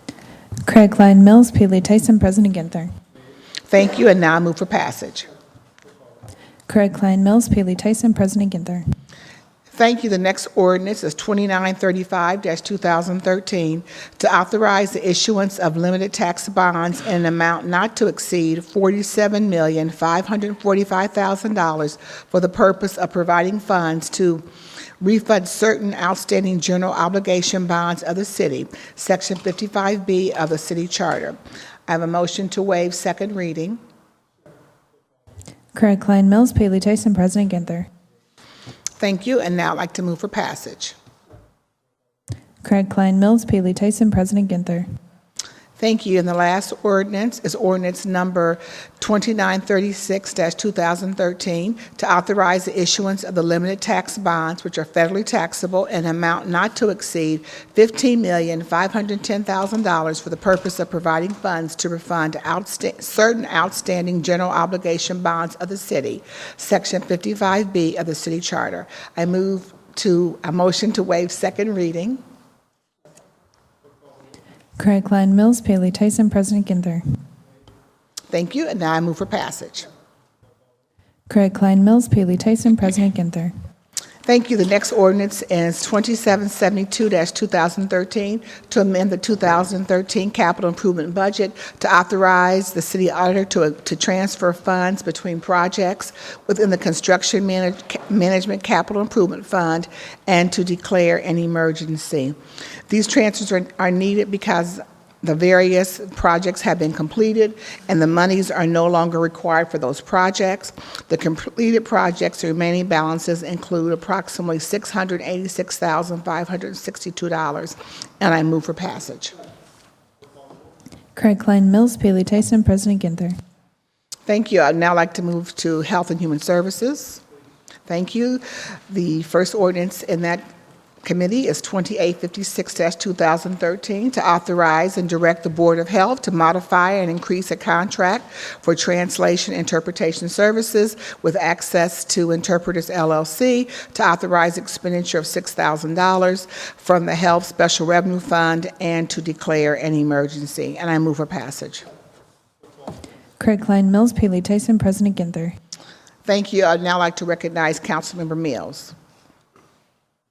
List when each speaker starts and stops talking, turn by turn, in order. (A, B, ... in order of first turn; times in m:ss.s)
0:00.6-0:02.9 A
0:03.7-0:05.3 B
0:06.7-0:08.8 A
0:09.7-0:24.4 B
0:25.0-0:33.8 B
0:35.7-0:37.9 A
0:39.0-0:40.9 B
0:42.6-0:44.8 A
0:45.8-1:12.2 B
1:14.8-1:17.0 A
1:18.3-1:19.9 B
1:21.3-1:23.5 A
1:24.2-1:42.4 B
1:42.9-1:59.3 B
2:01.1-2:03.4 A
2:04.3-2:07.2 B
2:07.9-2:10.4 B
2:11.0-2:31.8 B
2:33.4-2:35.5 A
2:36.2-2:38.9 B